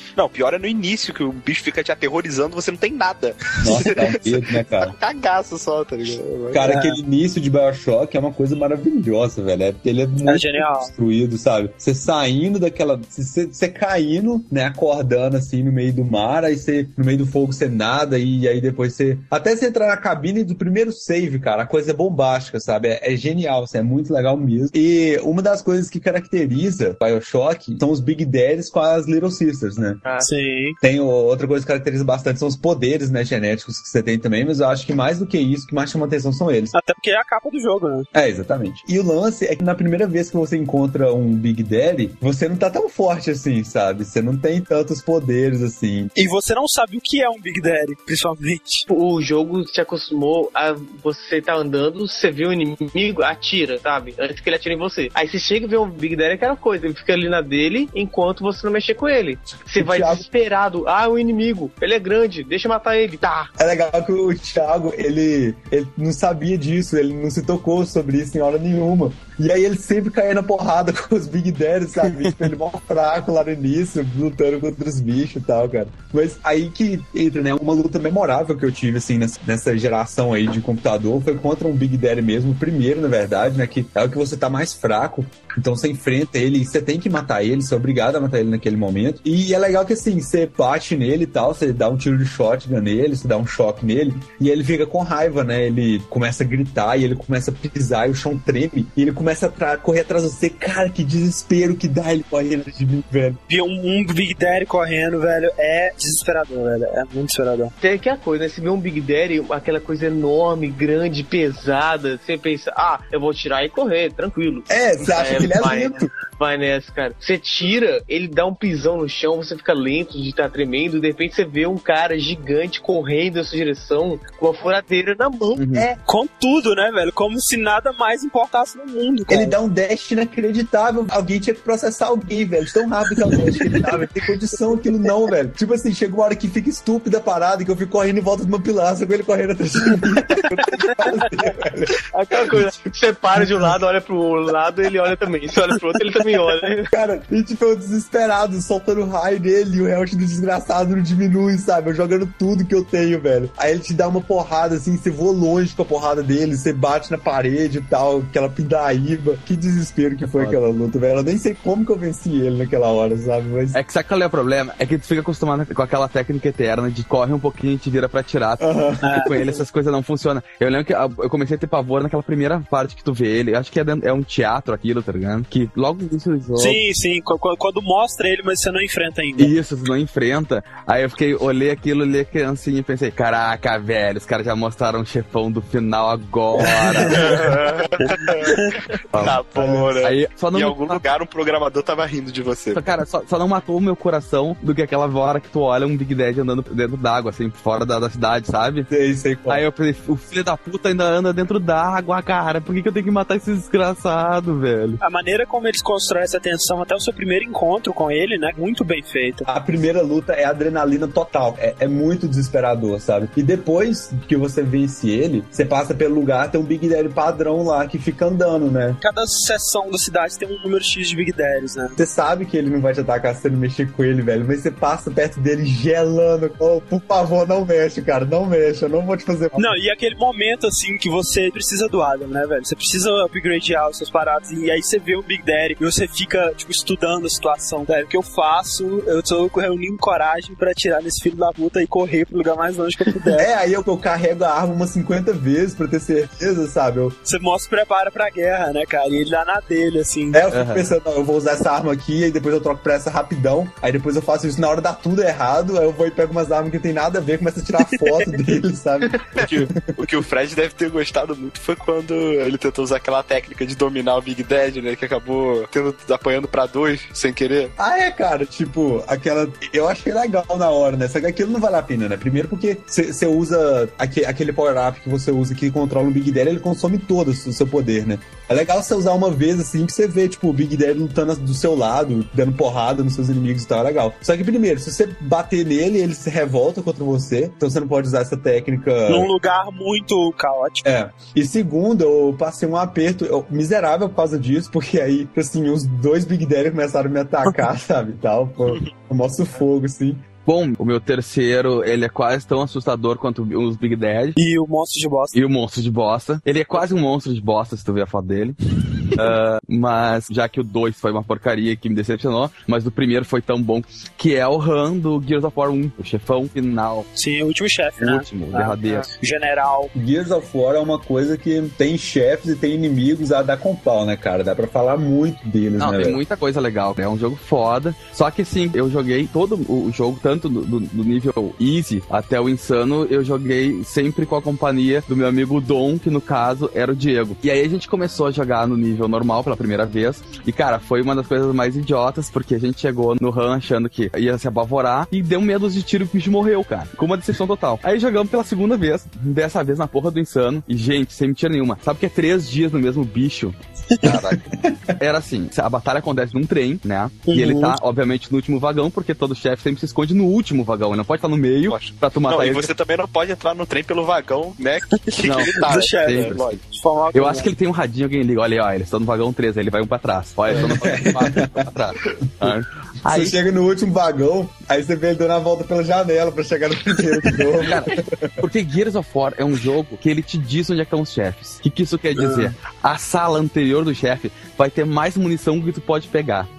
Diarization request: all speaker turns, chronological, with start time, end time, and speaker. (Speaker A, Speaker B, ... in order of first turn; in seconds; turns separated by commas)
Speaker A: 0.1-6.6, Speaker B: 3.6-5.0, Speaker B: 6.5-30.0, Speaker C: 6.6-7.0, Speaker C: 10.2-10.9, Speaker D: 30.0-30.3, Speaker C: 30.2-30.8, Speaker B: 30.8-36.7, Speaker C: 36.7-38.1, Speaker B: 38.1-46.1, Speaker C: 46.1-48.9, Speaker D: 48.9-63.5, Speaker B: 59.8-60.2, Speaker B: 63.6-103.4, Speaker E: 72.0-72.4, Speaker C: 103.5-107.7, Speaker D: 107.8-125.9, Speaker B: 114.7-116.1, Speaker E: 125.5-125.9, Speaker C: 125.9-129.6, Speaker B: 129.3-143.8, Speaker C: 133.6-133.9, Speaker D: 142.1-146.9, Speaker B: 146.9-163.8, Speaker E: 160.3-160.6, Speaker E: 163.7-176.8, Speaker B: 168.6-169.6, Speaker C: 169.0-169.3, Speaker C: 176.6-179.5, Speaker E: 179.4-187.6, Speaker C: 187.0-187.3, Speaker A: 187.1-192.9, Speaker C: 188.2-188.7, Speaker E: 189.1-189.4, Speaker B: 189.5-189.9, Speaker E: 190.0-191.0, Speaker E: 192.7-198.9, Speaker B: 198.9-199.6, Speaker E: 199.5-205.0, Speaker C: 205.0-209.5, Speaker B: 209.5-219.0, Speaker C: 219.0-222.0, Speaker B: 222.0-229.8, Speaker C: 229.6-243.4, Speaker B: 243.3-247.2, Speaker C: 247.2-250.4, Speaker B: 250.3-260.0, Speaker E: 250.5-250.9, Speaker C: 257.9-258.3, Speaker A: 259.3-267.7, Speaker B: 267.8-289.3, Speaker C: 289.1-290.8, Speaker B: 290.8-300.2, Speaker E: 300.4-304.4, Speaker C: 304.4-305.4, Speaker E: 305.3-317.1, Speaker C: 317.1-319.9, Speaker E: 318.0-319.1, Speaker B: 319.9-326.2, Speaker E: 325.8-354.4, Speaker B: 354.3-354.9, Speaker E: 355.0-362.7, Speaker C: 357.3-357.8, Speaker A: 361.6-366.6, Speaker C: 365.0-367.5, Speaker E: 365.2-366.6, Speaker E: 367.1-373.4, Speaker B: 370.6-371.6, Speaker B: 373.1-378.5, Speaker E: 377.6-386.5, Speaker C: 382.1-382.5